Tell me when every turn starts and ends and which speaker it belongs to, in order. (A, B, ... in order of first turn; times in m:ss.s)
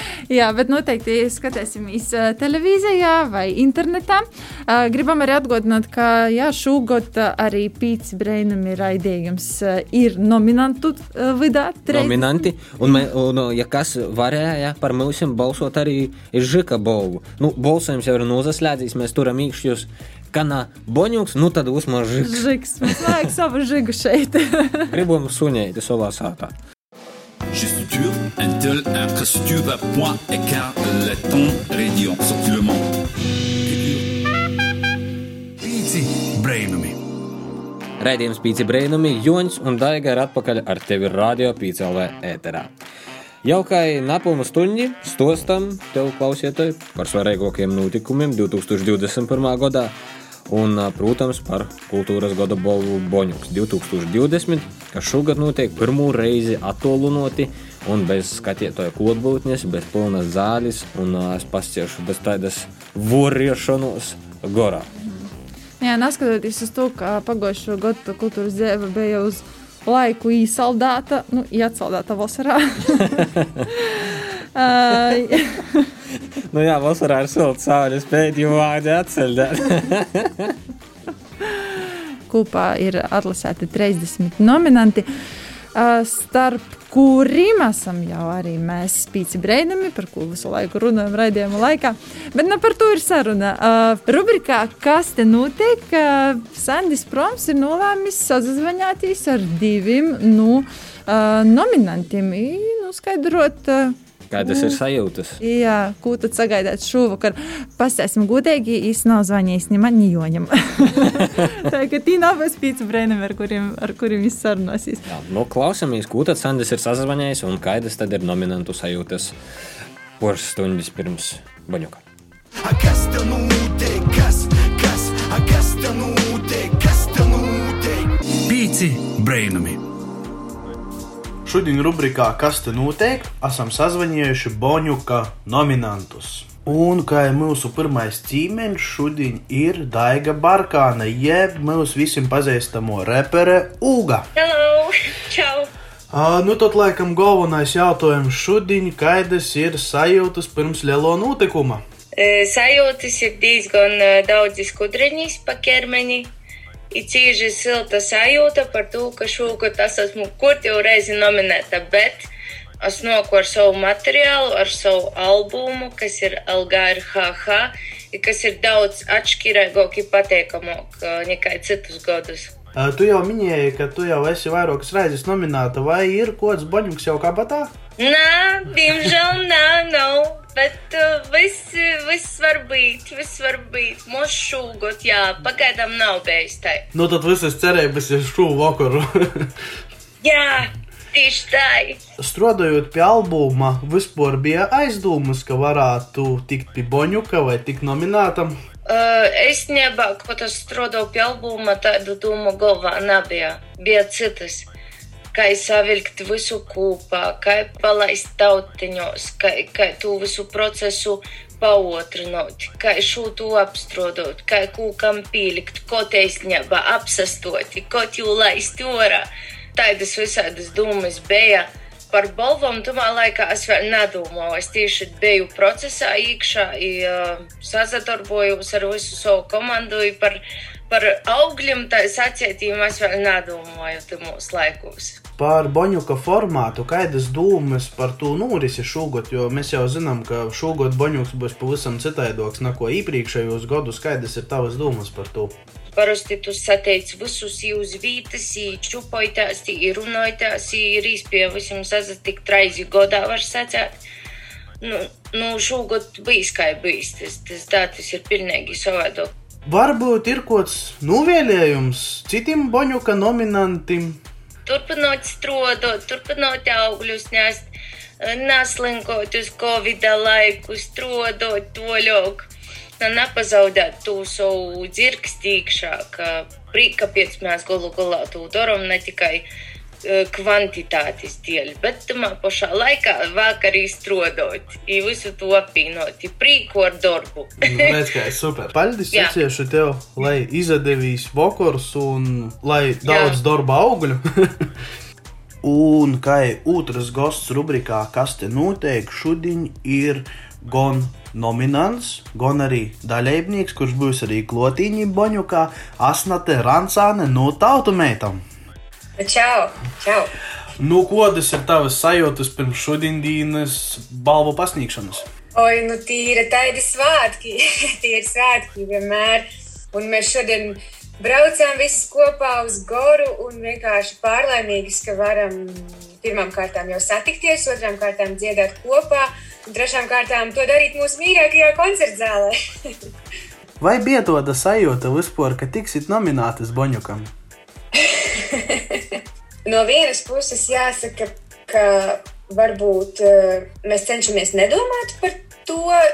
0:00.3-0:12.3 A
0:11.9-0:23.2 B
0:22.2-0:24.9 A
0:24.9-0:26.5 B
0:27.5-0:32.8 C
0:33.7-0:34.0 C
0:35.6-0:37.0 D
0:38.0-0:42.7 B
0:43.4-0:49.9 B
0:50.5-1:04.9 B
1:05.8-1:15.9 A
1:13.2-1:13.6 B
1:16.5-1:20.6 B
1:22.3-1:25.0 A
1:25.7-1:44.8 A
1:44.3-1:45.4 B
1:45.4-1:55.0 A
1:55.0-1:59.3 B
2:00.2-2:02.0 B
2:02.6-2:08.1 E
2:08.4-2:09.8 D
2:11.4-2:24.2 F
2:24.3-2:25.7 G
2:26.1-2:31.8 F
2:32.2-2:36.3 G
2:36.9-2:42.3 G
2:42.8-2:52.5 G
2:52.7-2:57.7 F
2:58.0-3:06.8 G
3:06.9-3:09.5 F
3:10.2-3:12.0 G
3:12.2-3:18.5 F
3:18.9-3:24.6 G
3:25.3-3:55.2 G
3:55.4-4:05.5 F
4:05.9-4:14.0 G
4:14.8-4:19.3 G
4:19.7-4:24.2 F
4:24.6-4:27.6 G
4:28.2-4:32.5 G
4:33.0-4:39.4 G
4:40.0-4:48.1 G
4:47.6-4:54.6 F
4:49.1-4:49.4 G
4:53.0-4:53.4 G
4:55.6-5:08.4 F
5:09.2-5:10.3 H
5:10.8-5:15.2 F
5:15.5-5:32.5 H
5:33.8-5:37.3 F
5:38.0-5:39.0 H
5:39.6-5:46.0 H